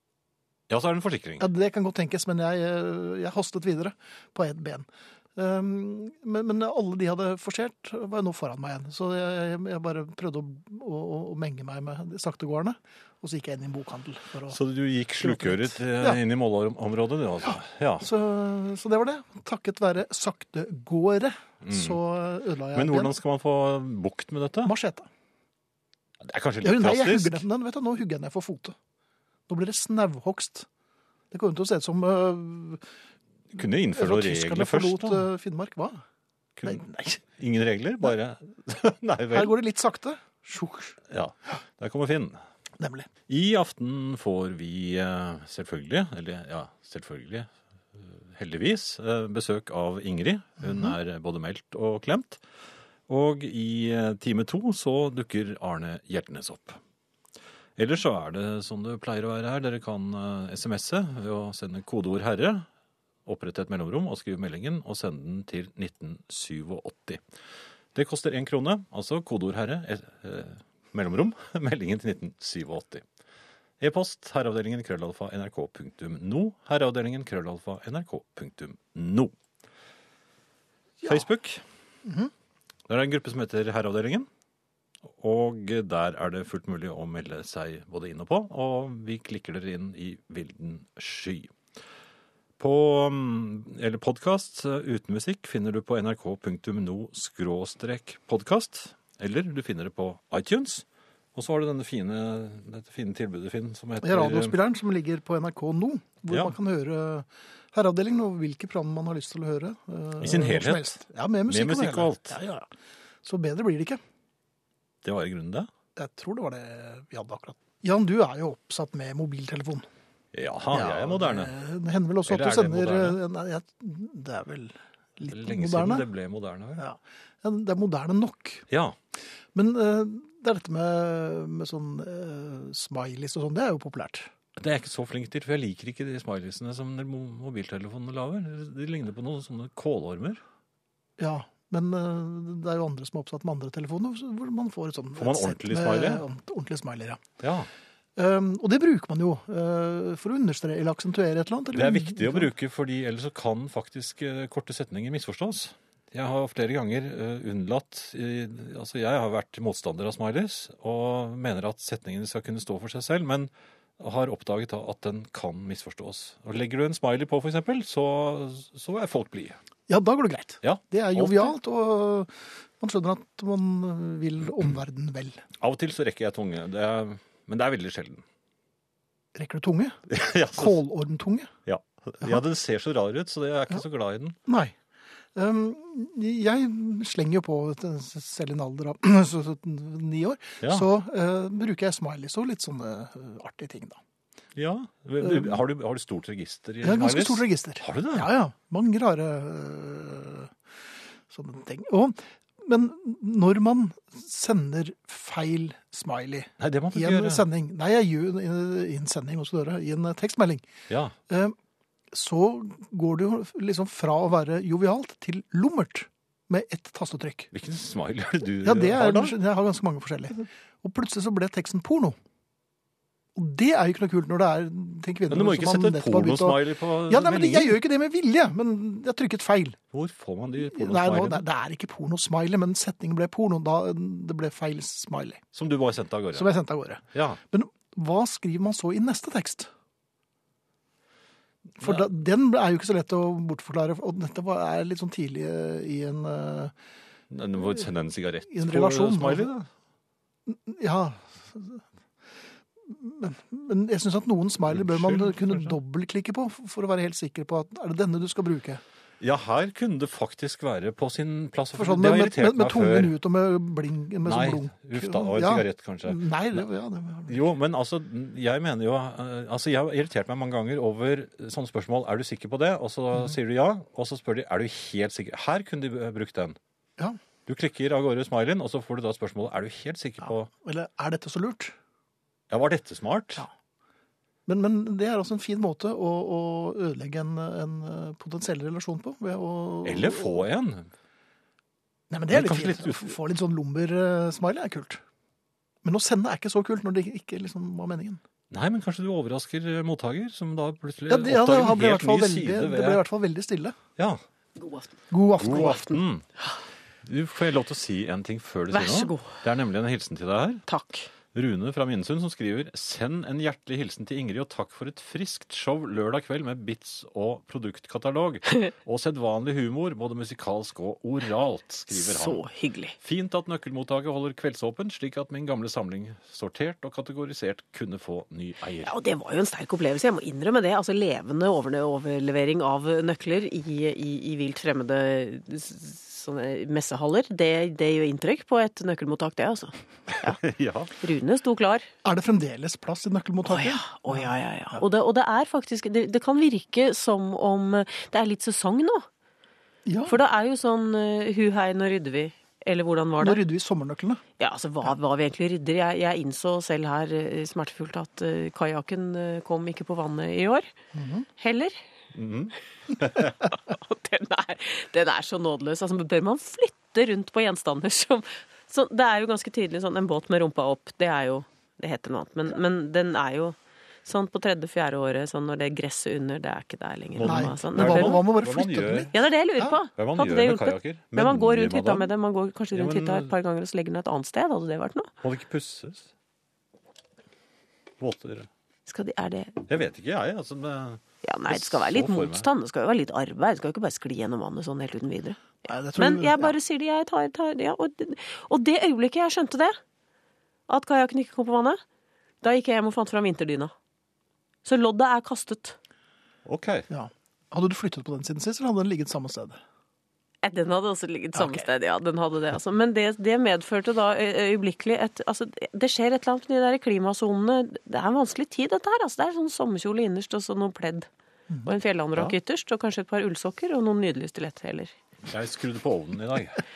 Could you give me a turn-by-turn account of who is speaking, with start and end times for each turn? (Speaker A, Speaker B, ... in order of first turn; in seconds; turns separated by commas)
Speaker A: 0.7-1.5, Speaker B: 1.4-14.6, Speaker A: 14.5-18.1, Speaker B: 15.2-16.2, Speaker B: 18.0-23.1, Speaker A: 21.6-22.0, Speaker A: 22.7-24.7, Speaker B: 24.6-25.1, Speaker A: 26.2-27.4, Speaker B: 26.6-28.8, Speaker B: 29.5-30.7, Speaker B: 31.3-32.8, Speaker A: 33.5-35.3, Speaker B: 33.9-36.0, Speaker A: 36.6-39.5, Speaker B: 36.6-37.2, Speaker B: 39.3-41.0, Speaker A: 41.1-42.4, Speaker B: 42.8-43.1, Speaker A: 43.3-52.4, Speaker A: 53.1-56.8, Speaker A: 57.8-62.7, Speaker A: 63.3-67.2, Speaker A: 67.9-73.0, Speaker A: 73.8-79.3, Speaker A: 81.1-81.6, Speaker B: 82.0-82.3, Speaker A: 82.9-84.3, Speaker A: 85.1-91.5, Speaker A: 92.6-104.6, Speaker B: 104.0-112.7, Speaker A: 110.2-110.9, Speaker A: 111.5-112.4, Speaker B: 113.2-114.0, Speaker A: 115.0-115.7, Speaker B: 116.0-119.9, Speaker A: 120.3-121.5, Speaker B: 120.7-126.1, Speaker A: 122.3-123.2, Speaker A: 125.3-126.8, Speaker B: 126.8-128.7, Speaker A: 128.7-129.0, Speaker B: 129.5-134.3, Speaker A: 134.6-140.4, Speaker B: 141.2-147.2, Speaker A: 145.2-146.2, Speaker A: 147.4-147.7, Speaker B: 148.2-152.5, Speaker A: 151.7-169.6, Speaker B: 169.9-175.4, Speaker A: 170.6-171.6, Speaker A: 175.6-178.2, Speaker B: 179.3-181.5, Speaker A: 180.1-180.8, Speaker A: 181.7-184.4, Speaker B: 184.5-184.8, Speaker B: 185.3-194.0, Speaker A: 194.6-198.3, Speaker B: 195.2-195.6, Speaker B: 196.8-200.5, Speaker B: 201.3-210.6, Speaker A: 206.6-207.4, Speaker A: 210.9-211.2, Speaker B: 211.3-211.6, Speaker B: 212.1-217.5, Speaker A: 217.5-219.4, Speaker B: 218.6-222.2, Speaker B: 223.3-229.8, Speaker A: 225.3-227.8, Speaker A: 229.9-231.4, Speaker B: 230.6-235.4, Speaker A: 235.5-236.5, Speaker B: 236.3-239.7, Speaker A: 237.1-237.4, Speaker B: 241.8-246.7, Speaker A: 241.8-242.1, Speaker A: 247.3-249.7, Speaker B: 248.5-249.6, Speaker B: 250.5-251.8, Speaker B: 252.9-258.8, Speaker A: 254.7-255.8, Speaker A: 259.2-263.1, Speaker B: 261.7-267.4, Speaker A: 264.2-266.6, Speaker A: 267.3-276.6, Speaker A: 277.5-280.5, Speaker B: 280.6-281.8, Speaker A: 282.5-283.4, Speaker B: 284.5-290.4, Speaker A: 289.8-290.9, Speaker B: 292.1-295.0, Speaker A: 292.3-293.1, Speaker B: 295.8-298.2, Speaker A: 298.5-303.1, Speaker B: 301.1-303.8, Speaker C: 304.6-304.9, Speaker B: 305.1-305.9, Speaker A: 305.4-306.2, Speaker C: 305.6-306.6, Speaker A: 307.0-310.6, Speaker C: 308.7-309.4, Speaker C: 310.7-311.1, Speaker A: 311.3-322.4, Speaker C: 321.9-323.0, Speaker A: 323.0-328.9, Speaker C: 328.8-340.4, Speaker A: 340.3-340.9, Speaker C: 341.0-341.9, Speaker B: 342.0-344.8, Speaker C: 343.4-349.1, Speaker B: 349.9-350.1, Speaker C: 350.1-353.4, Speaker B: 353.2-354.2, Speaker C: 354.4-360.7, Speaker B: 360.9-361.3, Speaker C: 361.4-361.8, Speaker A: 362.1-363.3, Speaker C: 363.2-378.3, Speaker A: 377.1-379.2, Speaker B: 377.2-379.8, Speaker C: 379.1-385.1, Speaker A: 380.0-382.1, Speaker A: 382.7-383.3, Speaker A: 385.2-386.1, Speaker A: 388.0-388.5, Speaker C: 388.9-389.7, Speaker A: 389.7-392.5, Speaker C: 391.2-399.8, Speaker B: 395.7-396.5, Speaker C: 400.7-401.8, Speaker C: 402.4-403.7, Speaker C: 404.6-405.8, Speaker A: 406.5-406.9, Speaker B: 406.9-409.6, Speaker C: 410.4-421.1, Speaker B: 411.4-411.6, Speaker C: 421.6-424.9, Speaker A: 425.3-426.6